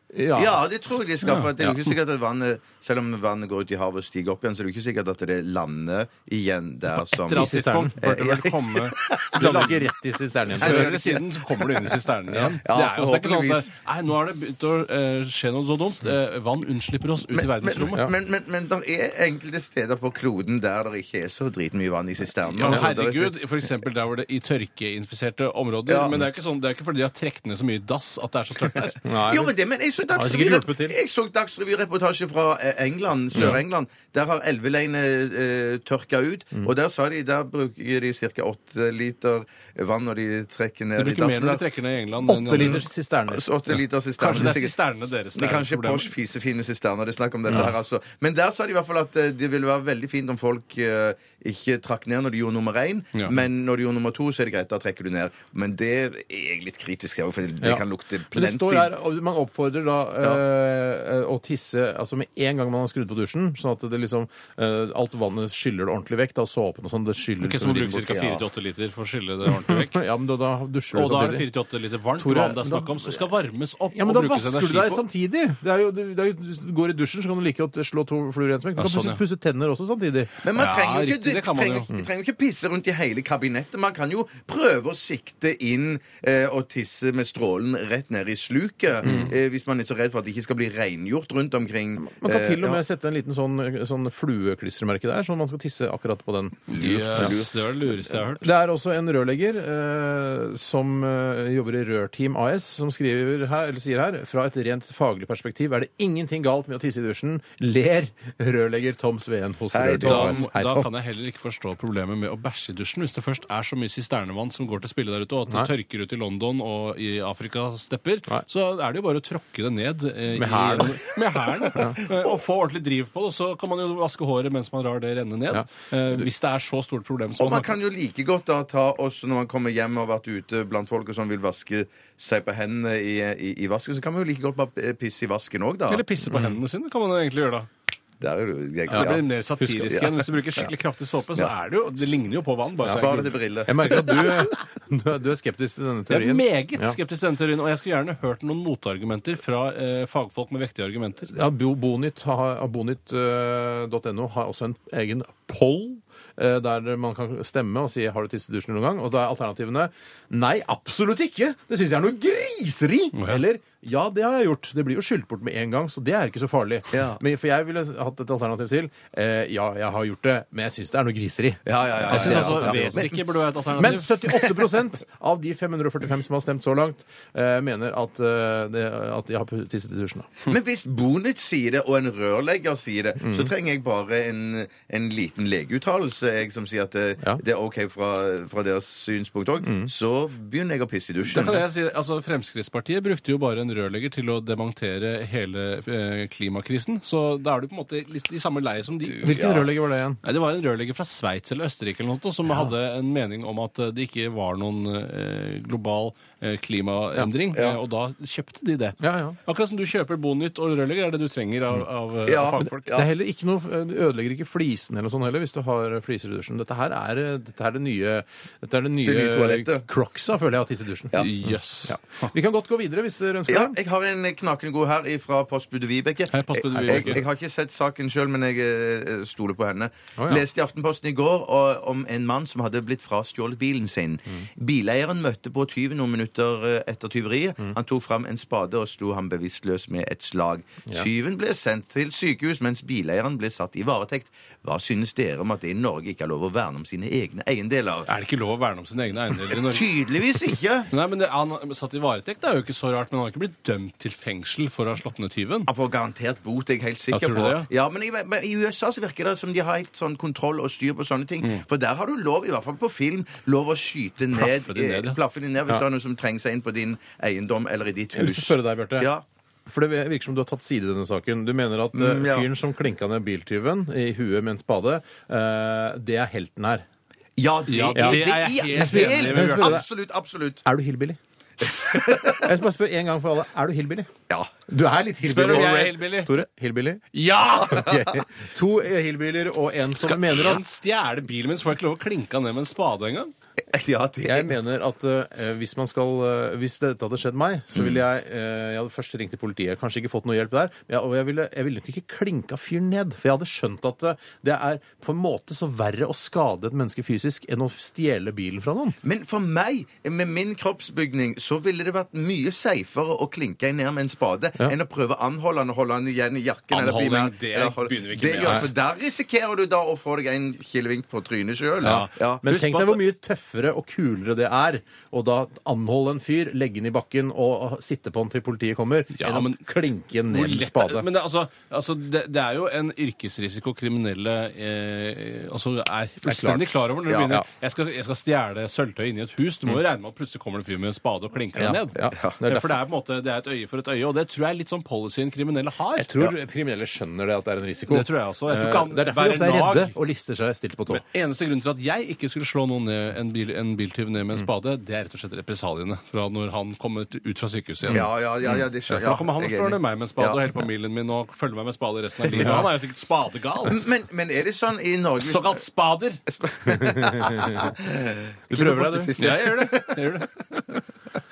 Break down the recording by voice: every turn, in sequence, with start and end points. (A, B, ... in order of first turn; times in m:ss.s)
0:00.1-0:00.7 A
0:00.4-0:09.7 B
0:01.2-0:01.8 C
0:06.9-0:09.9 C
0:07.3-0:08.1 A
0:09.3-0:11.2 A
0:10.5-0:18.1 C
0:10.6-0:11.9 B
0:12.6-0:13.7 B
0:17.3-0:23.4 B
0:22.5-0:29.0 C
0:25.9-0:26.2 B
0:29.0-0:29.6 A
0:29.2-0:41.6 B
0:30.1-0:31.0 A
0:33.4-0:33.6 A
0:41.0-0:42.9 C
0:42.3-0:43.4 A
0:42.6-0:44.8 B
0:44.2-0:46.1 C
0:45.3-0:58.9 B
0:53.2-0:53.4 C
0:57.6-1:08.1 A
1:07.4-1:10.0 C
1:08.1-1:08.4 B
1:09.6-1:11.5 A
1:10.9-1:15.0 C
1:12.2-1:13.2 A
1:13.9-1:20.3 A
1:18.8-1:19.2 C
1:20.4-1:32.8 B
1:20.5-1:21.9 C
1:29.0-1:29.3 A
1:32.0-1:37.4 A
1:36.7-1:38.5 C
1:36.8-1:37.5 B
1:38.4-1:50.9 A
1:49.7-1:50.5 B
1:50.0-2:07.8 C
2:00.3-2:01.0 A
2:01.7-2:02.0 A
2:02.0-2:02.4 B
2:07.4-2:16.0 B
2:15.9-2:17.7 C
2:16.3-2:16.6 A
2:18.2-2:20.7 B
2:18.9-2:23.4 C
2:22.8-2:24.2 B
2:23.7-2:27.0 A
2:26.1-2:31.3 C
2:31.3-2:53.1 A
2:43.2-2:43.4 C
2:46.9-2:47.2 B
2:51.7-2:53.2 B
2:52.0-2:54.6 C
2:53.8-3:00.3 A
3:00.4-3:11.6 B
3:03.2-3:03.5 A
3:09.6-3:09.9 A
3:11.3-3:19.7 C
3:19.1-3:20.2 A
3:20.2-3:33.0 C
3:27.5-3:27.8 B
3:29.0-3:29.4 A
3:32.3-3:33.1 B
3:32.9-3:43.8 A
3:39.0-3:39.9 B
3:41.2-3:42.3 C
3:43.5-4:08.1 B
3:46.3-3:47.2 C
3:46.8-3:47.2 A
3:50.2-3:50.4 A
4:08.1-4:15.7 C
4:09.5-4:10.9 B
4:15.7-4:29.2 B
4:17.1-4:17.7 C
4:24.3-4:25.2 C
4:28.2-4:29.1 A
4:29.7-4:36.8 A
4:32.0-4:32.5 B
4:37.4-4:40.6 B
4:37.7-4:39.8 C
4:38.0-4:39.9 A
4:40.6-4:41.2 A
4:41.6-4:42.5 B
4:42.2-4:44.1 A
4:44.7-4:47.1 A
4:45.2-4:46.3 C
4:47.1-4:47.9 C
4:47.6-4:50.6 A
4:47.6-4:48.0 B
4:50.0-4:53.3 C
4:53.7-4:54.5 B
4:54.2-5:09.0 A
5:09.0-5:22.4 B
5:16.7-5:18.7 C
5:21.8-5:23.0 C
5:21.8-5:31.1 A
5:29.1-5:29.6 C
5:30.3-5:46.1 C
5:36.2-5:37.4 A
5:37.1-5:37.3 B
5:41.6-5:42.7 A
5:42.0-5:42.4 B
5:46.0-5:51.0 A
5:47.9-5:49.9 C
5:50.9-5:58.1 C
5:57.9-6:00.4 B
5:58.9-6:03.8 C
6:02.3-6:02.7 A
6:03.7-6:05.6 B
6:05.2-6:06.2 C
6:06.3-6:10.3 B
6:06.7-6:07.7 A
6:08.5-6:09.1 A
6:09.2-6:10.8 C